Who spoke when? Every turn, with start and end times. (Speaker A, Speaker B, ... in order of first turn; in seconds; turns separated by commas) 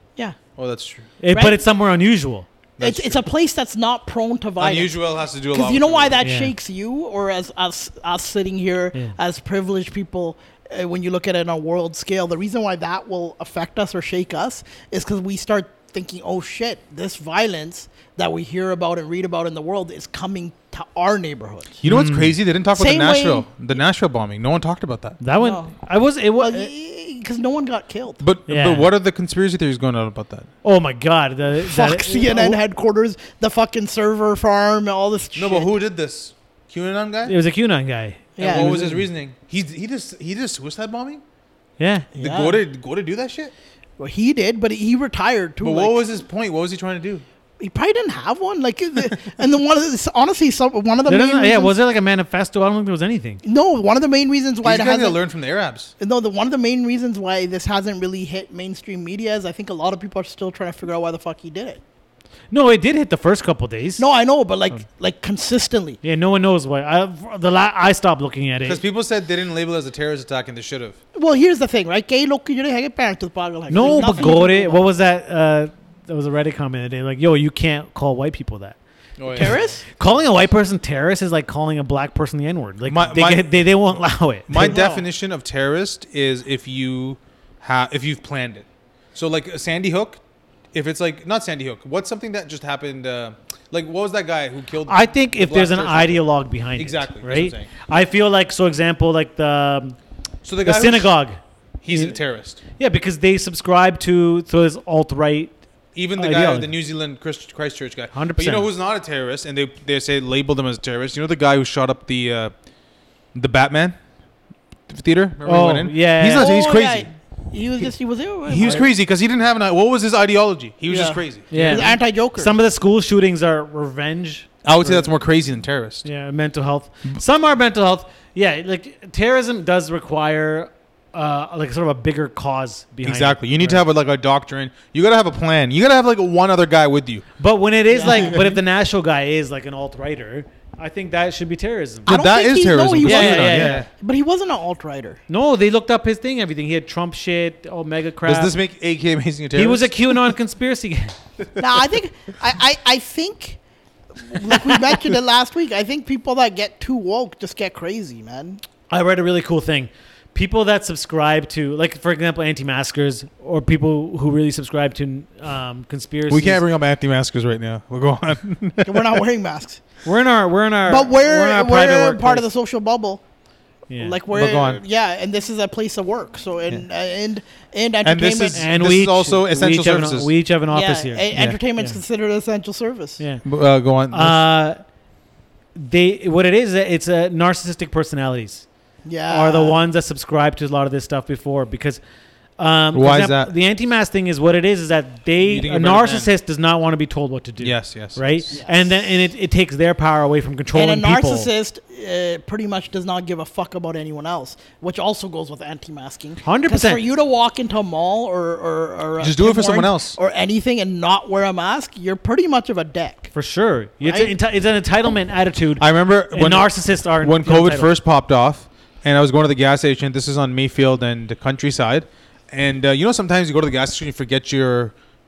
Speaker A: 0.6-1.1, Speaker B: 1.2-2.5, Speaker C: 1.3-1.6, Speaker A: 2.8-3.2, Speaker C: 2.8-5.0, Speaker A: 4.6-6.2, Speaker C: 5.5-21.8, Speaker B: 6.2-6.5, Speaker A: 21.8-25.2, Speaker B: 21.9-22.3, Speaker C: 22.7-23.4, Speaker B: 25.2-26.7, Speaker C: 25.4-25.7, Speaker C: 26.4-28.2, Speaker A: 28.2-30.5, Speaker B: 28.5-28.9, Speaker B: 30.6-32.6, Speaker C: 31.6-35.7, Speaker A: 35.4-37.4, Speaker B: 37.2-39.0, Speaker C: 38.4-38.8, Speaker A: 38.4-41.2, Speaker B: 41.8-42.1, Speaker C: 42.1-42.6, Speaker A: 42.2-43.5, Speaker C: 44.0-46.0, Speaker A: 45.6-47.2, Speaker C: 47.6-51.7, Speaker B: 51.1-53.4, Speaker C: 53.4-55.2, Speaker A: 54.6-55.9, Speaker C: 56.0-61.8, Speaker B: 62.5-64.0, Speaker C: 64.0-66.0, Speaker B: 66.0-68.8, Speaker A: 68.6-71.0, Speaker C: 71.1-74.8, Speaker B: 73.7-78.8, Speaker A: 79.2-79.6, Speaker C: 79.3-79.8, Speaker B: 79.3-84.8, Speaker A: 82.9-83.5, Speaker A: 84.5-90.2, Speaker C: 84.5-85.0, Speaker A: 90.7-97.7, Speaker B: 94.9-100.0, Speaker A: 100.4-101.1, Speaker B: 100.6-101.4, Speaker A: 101.8-102.6, Speaker B: 101.9-102.2, Speaker B: 102.8-105.5, Speaker A: 105.9-112.5, Speaker B: 106.2-106.7, Speaker B: 108.1-108.7, Speaker A: 113.3-114.0, Speaker A: 114.9-117.1, Speaker B: 115.4-116.5, Speaker C: 116.3-118.8, Speaker A: 118.5-121.8, Speaker C: 120.9-122.5, Speaker B: 121.5-125.1, Speaker A: 124.6-126.0, Speaker B: 126.0-133.8, Speaker A: 133.0-137.2, Speaker B: 137.4-142.1, Speaker C: 137.9-138.4, Speaker A: 138.1-138.5, Speaker A: 142.1-143.9, Speaker C: 142.1-145.2, Speaker B: 143.0-143.8, Speaker B: 145.3-148.5, Speaker A: 148.2-150.3, Speaker B: 149.5-151.1, Speaker C: 151.6-153.6, Speaker C: 154.2-158.6, Speaker B: 158.9-166.6, Speaker A: 166.3-169.2, Speaker C: 168.8-169.8, Speaker B: 170.0-172.4, Speaker C: 170.8-173.2, Speaker B: 173.9-174.2, Speaker C: 174.0-178.7, Speaker A: 174.3-174.8, Speaker A: 178.0-180.3, Speaker B: 178.5-182.0, Speaker C: 180.7-183.2, Speaker A: 183.4-184.4, Speaker B: 184.1-184.8, Speaker B: 185.7-188.7, Speaker C: 189.0-189.8, Speaker B: 189.3-192.0, Speaker B: 192.6-201.5, Speaker A: 192.9-193.5, Speaker A: 195.4-196.3, Speaker A: 197.6-198.4, Speaker C: 198.5-198.9, Speaker C: 200.7-213.3, Speaker B: 206.4-207.0, Speaker A: 209.2-210.2, Speaker B: 213.3-217.9, Speaker C: 214.0-214.3, Speaker A: 215.8-224.9